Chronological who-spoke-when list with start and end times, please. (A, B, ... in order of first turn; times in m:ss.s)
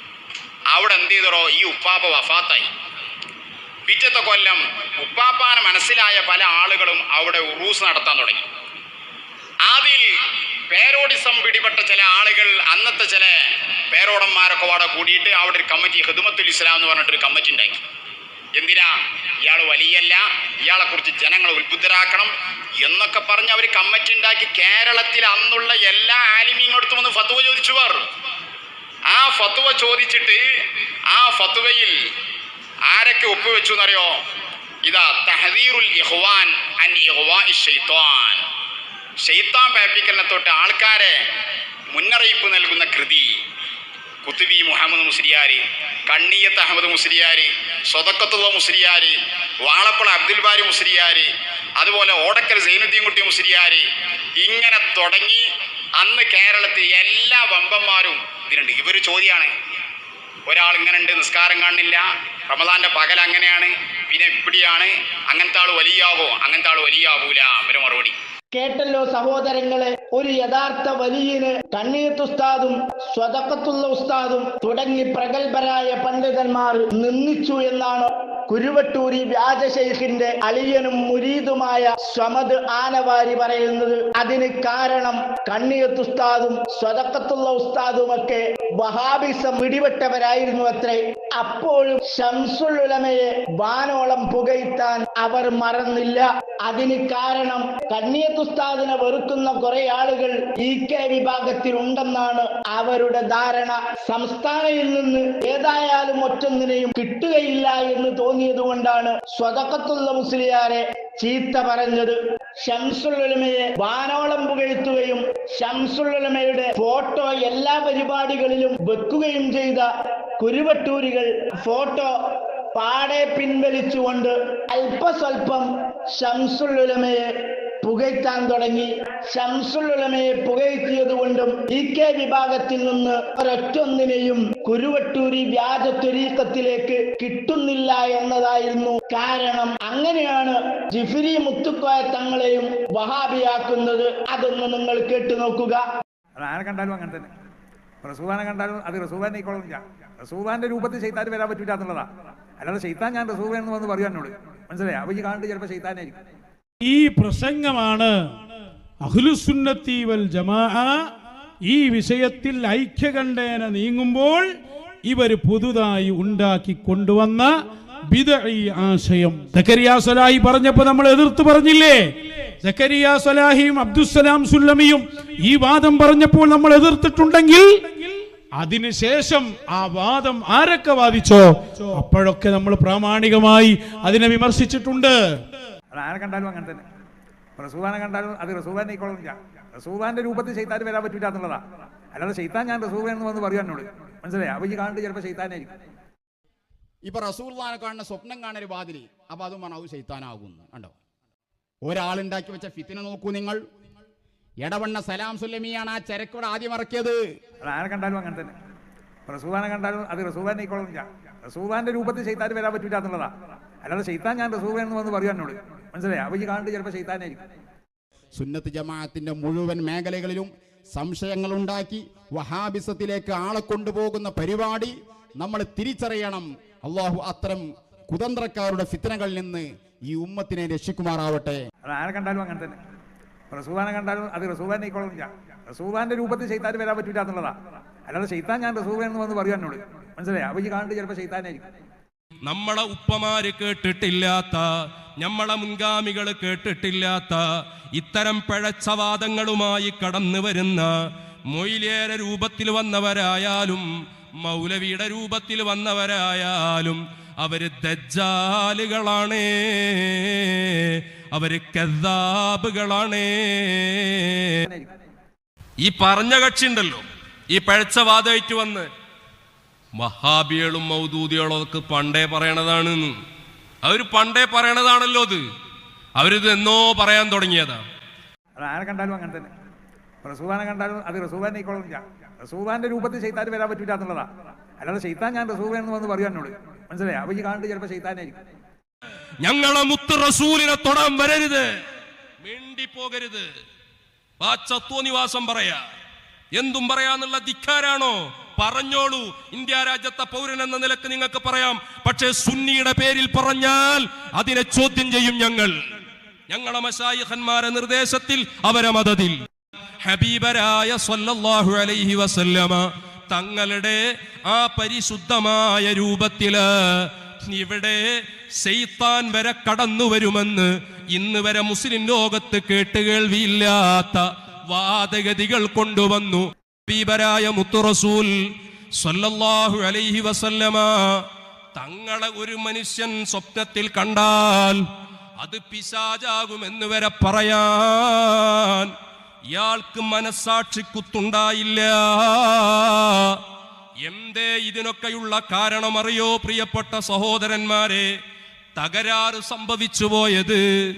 0:00.7-0:02.7 A
0:03.9-0:08.5 A
0:09.6-0:10.1 A
0:10.7-0:13.4 A
0:13.9-0:17.8 A
0:18.6-0:28.1 A
0:29.1-0:30.4 A
0:31.1-0:32.0 A
0:32.9-0:34.2 A
0:34.8-0:38.4 A
0:39.2-0:41.2 A
0:41.9-0:43.3 A
0:44.2-0:51.3 A
0:51.8-0:53.8 A
0:54.4-0:55.4 A
0:56.0-0:59.5 A
1:00.5-1:08.2 A
1:08.5-2:02.2 B
2:02.7-2:25.8 B
2:26.4-2:27.3 C
2:28.0-2:32.1 C
2:32.6-2:36.2 C
2:36.8-2:38.2 D
2:39.0-2:40.9 D
2:41.6-2:44.5 D
2:45.0-2:47.5 D
2:48.1-2:52.0 D
2:52.6-3:05.4 D
3:05.9-3:06.8 C
3:07.6-3:15.8 C
3:17.1-3:20.9 E
3:21.8-3:23.6 E
3:24.6-3:27.2 E
3:27.6-3:28.5 C
3:29.3-3:37.5 C
3:38.4-3:51.6 E
3:51.9-3:52.8 C
3:53.5-4:01.7 C
4:02.5-4:04.7 F
4:05.2-4:07.4 F
4:08.0-4:10.9 F
4:11.5-4:13.8 F
4:14.4-4:24.4 F
4:24.6-4:25.0 C
4:25.8-4:28.9 F
4:30.0-4:33.1 F
4:33.8-4:35.4 F
4:36.2-4:37.8 F
4:38.6-4:39.5 C
4:40.2-4:44.3 C
4:44.8-4:48.4 C
4:49.4-4:51.7 F
4:52.4-4:53.5 F
4:54.4-4:55.8 F
4:56.6-5:05.7 F
5:06.5-5:09.3 F
5:10.0-5:18.1 F
5:18.6-5:28.3 F
5:29.0-5:31.1 F
5:31.8-5:34.8 F
5:35.4-5:38.9 F
5:39.5-5:43.4 F
5:44.0-5:48.1 F
5:48.8-5:50.6 F